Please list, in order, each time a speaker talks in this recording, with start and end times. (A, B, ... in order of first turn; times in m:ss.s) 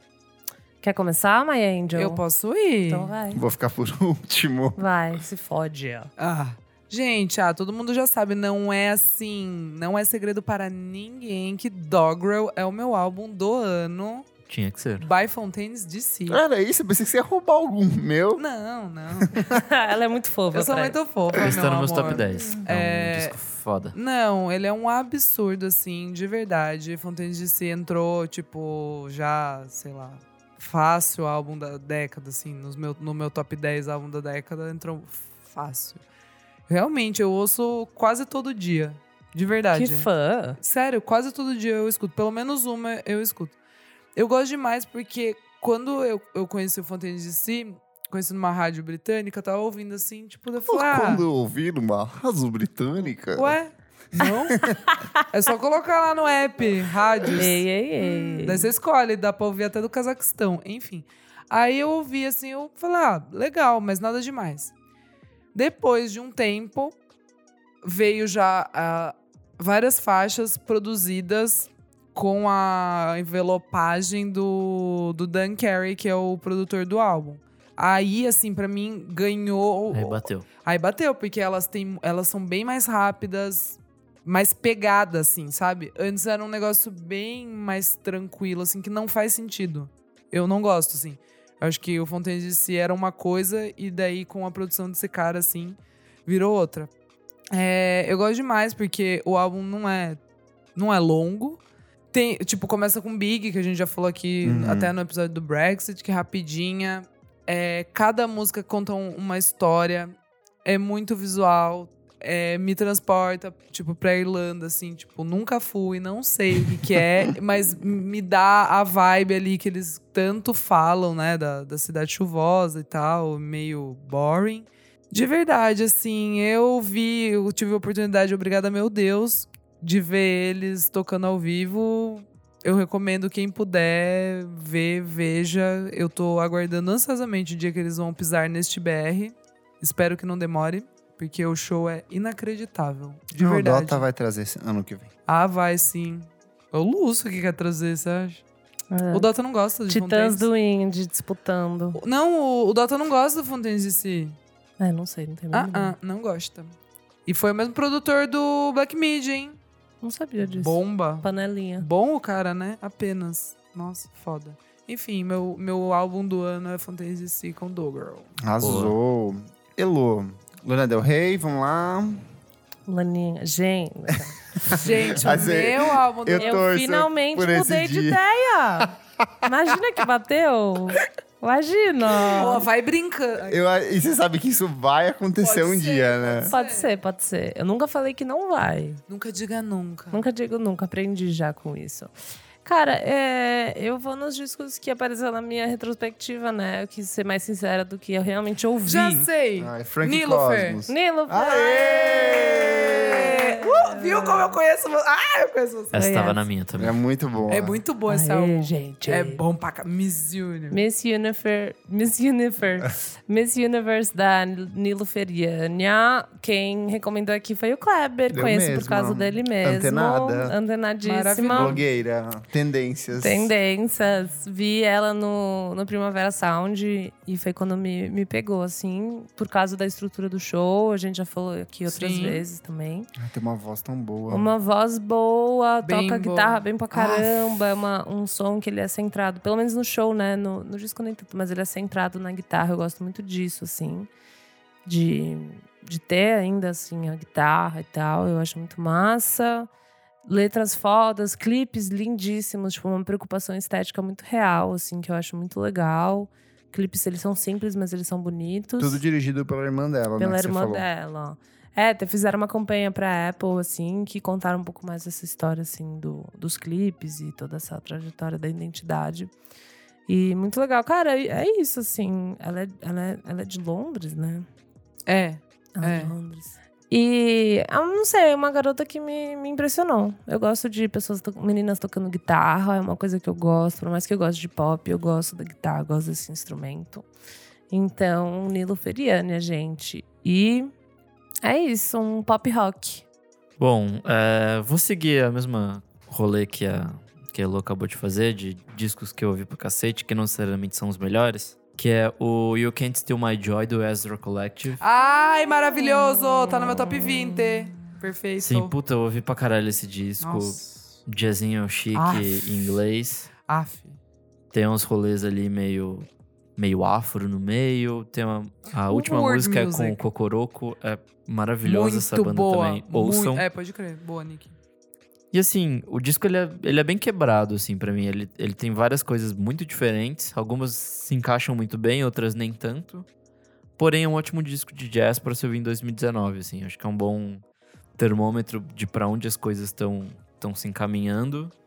0:00.8-0:02.2 A
0:02.0-0:03.1 B
0:02.9-0:03.4 A
0:03.3-0:04.8 C
0:04.8-0:06.1 A
0:06.2-0:14.3 B
0:14.5-0:15.1 D
0:15.0-0:16.4 B
0:16.3-0:18.4 C
0:18.4-0:19.4 B
0:19.2-0:19.6 C
0:19.4-0:21.0 A
0:20.5-0:23.4 B
0:21.4-0:24.0 D
0:23.9-0:36.0 B
0:36.7-0:40.1 B
0:39.7-0:40.6 A
0:40.6-0:43.6 B
0:44.2-0:51.2 B
0:50.7-0:53.6 C
0:53.4-0:54.7 B
0:54.9-0:55.2 A
0:55.3-1:04.7 B
0:57.3-0:58.7 A
1:05.5-1:07.0 B
1:07.8-1:36.9 B
1:19.9-1:20.5 D
1:37.5-1:40.2 B
1:40.8-1:41.6 B
1:42.1-2:24.0 B
1:44.4-1:44.9 C
2:23.4-2:25.1 C
2:25.3-2:28.4 B
2:28.9-2:29.3 A
2:29.1-2:30.5 B
2:29.9-2:32.0 A
2:32.0-2:34.4 B
2:34.8-2:36.0 A
2:35.5-2:36.7 B
2:37.3-2:39.6 B
2:40.0-2:41.9 A
2:40.4-2:41.3 B
2:41.8-2:48.3 B
2:48.4-2:52.2 C
2:48.6-2:48.9 D
2:52.9-2:54.4 A
2:54.6-2:58.2 C
2:54.7-2:56.6 B
2:56.4-3:02.7 A
2:58.8-2:59.5 C
3:02.2-3:03.6 B
3:03.4-3:06.5 C
3:05.4-3:06.9 B
3:06.5-3:09.0 A
3:09.1-3:10.2 B
3:10.1-3:12.1 A
3:12.6-3:19.3 A
3:18.9-3:20.8 B
3:19.6-3:23.4 C
3:20.9-3:21.9 A
3:21.6-3:26.0 B
3:22.9-3:24.5 A
3:25.9-3:27.0 D
3:26.0-3:26.4 A
3:26.8-3:27.8 C
3:27.5-3:30.8 B
3:28.1-3:29.4 A
3:30.7-3:41.8 A
3:38.3-3:40.6 C
3:41.0-3:41.8 B
3:41.5-3:43.5 C
3:43.2-3:53.1 A
3:51.9-3:52.5 B
3:53.2-3:54.5 C
3:54.3-4:04.1 A
3:55.8-3:57.5 B
4:04.9-4:09.7 A
4:10.3-4:19.0 A
4:18.8-4:20.8 C
4:20.2-4:29.3 A
4:30.1-4:34.5 A
4:35.1-4:36.1 B
4:35.8-4:47.1 A
4:47.7-4:50.7 A
4:51.4-4:53.0 A
4:53.6-5:04.8 D
5:04.8-5:08.7 B
5:06.5-5:07.5 A
5:08.4-5:13.3 D
5:10.2-5:10.7 B
5:11.9-5:12.7 B
5:13.5-5:14.0 B
5:14.5-5:23.5 D
5:18.9-5:20.0 B
5:21.6-5:24.6 B
5:25.3-5:33.1 D
5:33.8-5:37.4 D
5:38.0-5:41.5 D